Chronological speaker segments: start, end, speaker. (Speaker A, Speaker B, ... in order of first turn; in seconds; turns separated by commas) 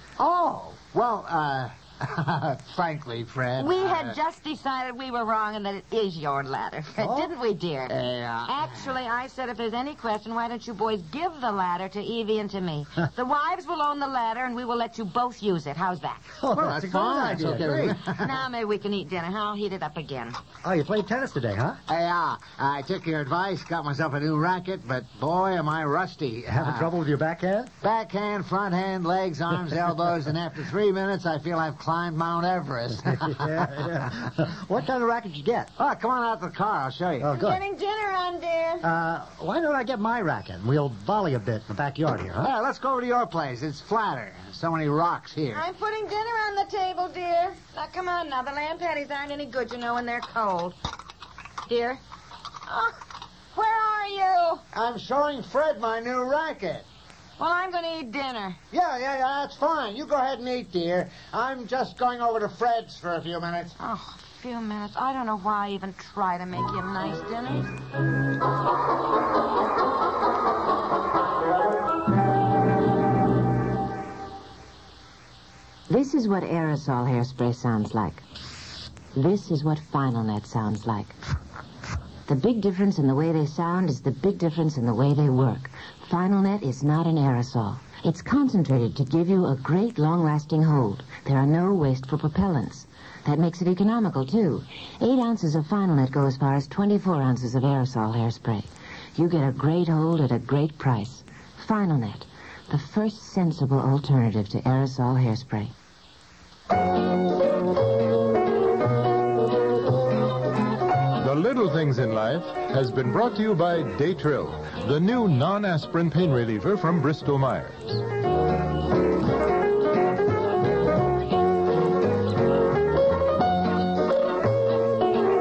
Speaker A: 0.2-4.2, Speaker B: 3.6-7.9, Speaker C: 7.0-7.3, Speaker A: 7.9-8.7, Speaker B: 8.5-16.4, Speaker C: 16.4-18.0, Speaker A: 16.5-18.3, Speaker B: 18.1-20.4, Speaker C: 20.6-21.8, Speaker A: 21.9-26.9, Speaker C: 26.5-27.7, Speaker A: 27.8-33.8, Speaker C: 33.1-35.7, Speaker A: 35.8-37.3, Speaker C: 37.2-37.6, Speaker B: 37.3-38.9, Speaker C: 38.8-42.5, Speaker A: 42.4-45.6, Speaker B: 45.5-50.8, Speaker B: 51.7-52.0, Speaker B: 52.7-53.0, Speaker B: 53.5-54.6, Speaker A: 54.7-56.9, Speaker B: 57.4-58.6, Speaker A: 58.7-63.8, Speaker B: 63.8-67.8, Speaker B: 75.9-78.2, Speaker B: 79.2-81.2, Speaker B: 82.3-105.7, Speaker D: 111.2-118.0